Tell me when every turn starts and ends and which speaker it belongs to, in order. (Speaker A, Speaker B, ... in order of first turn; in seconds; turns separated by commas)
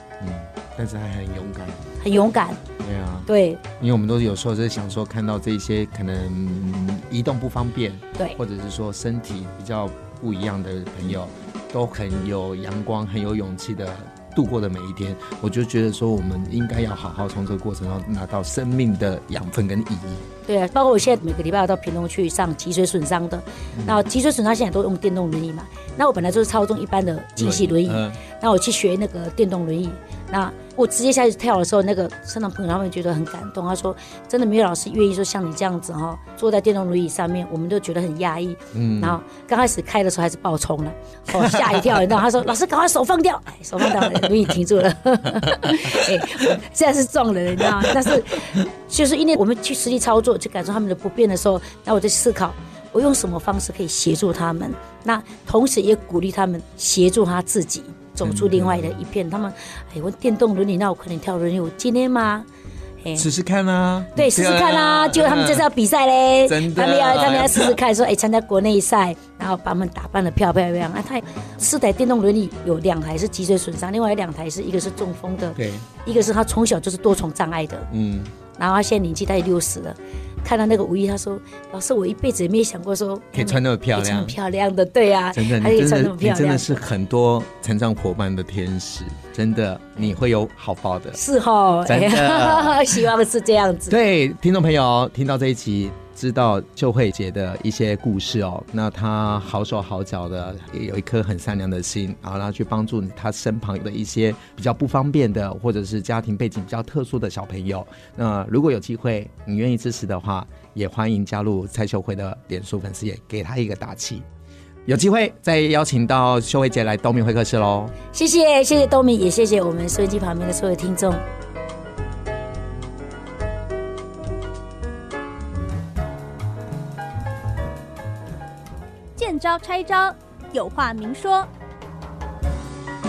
Speaker A: 0.2-1.8, Speaker B: 2.0-2.6, Speaker A: 2.8-20.2, Speaker B: 3.3-3.6, Speaker B: 20.5-62.5, Speaker A: 23.7-24.0, Speaker A: 27.4-28.2, Speaker A: 38.7-39.2, Speaker A: 41.4-41.8, Speaker A: 45.5-46.4, Speaker A: 58.2-59.0, Speaker A: 63.1-65.7, Speaker B: 64.1-77.9, Speaker A: 66.4-67.8, Speaker A: 75.5-75.8, Speaker A: 77.9-78.3, Speaker B: 78.6-86.8, Speaker A: 83.3-84.3, Speaker A: 85.3-91.2, Speaker B: 91.1-94.0, Speaker A: 91.8-93.1, Speaker A: 93.9-114.2, Speaker A: 114.8-117.9, Speaker B: 118.1-121.2, Speaker C: 129.2-131.5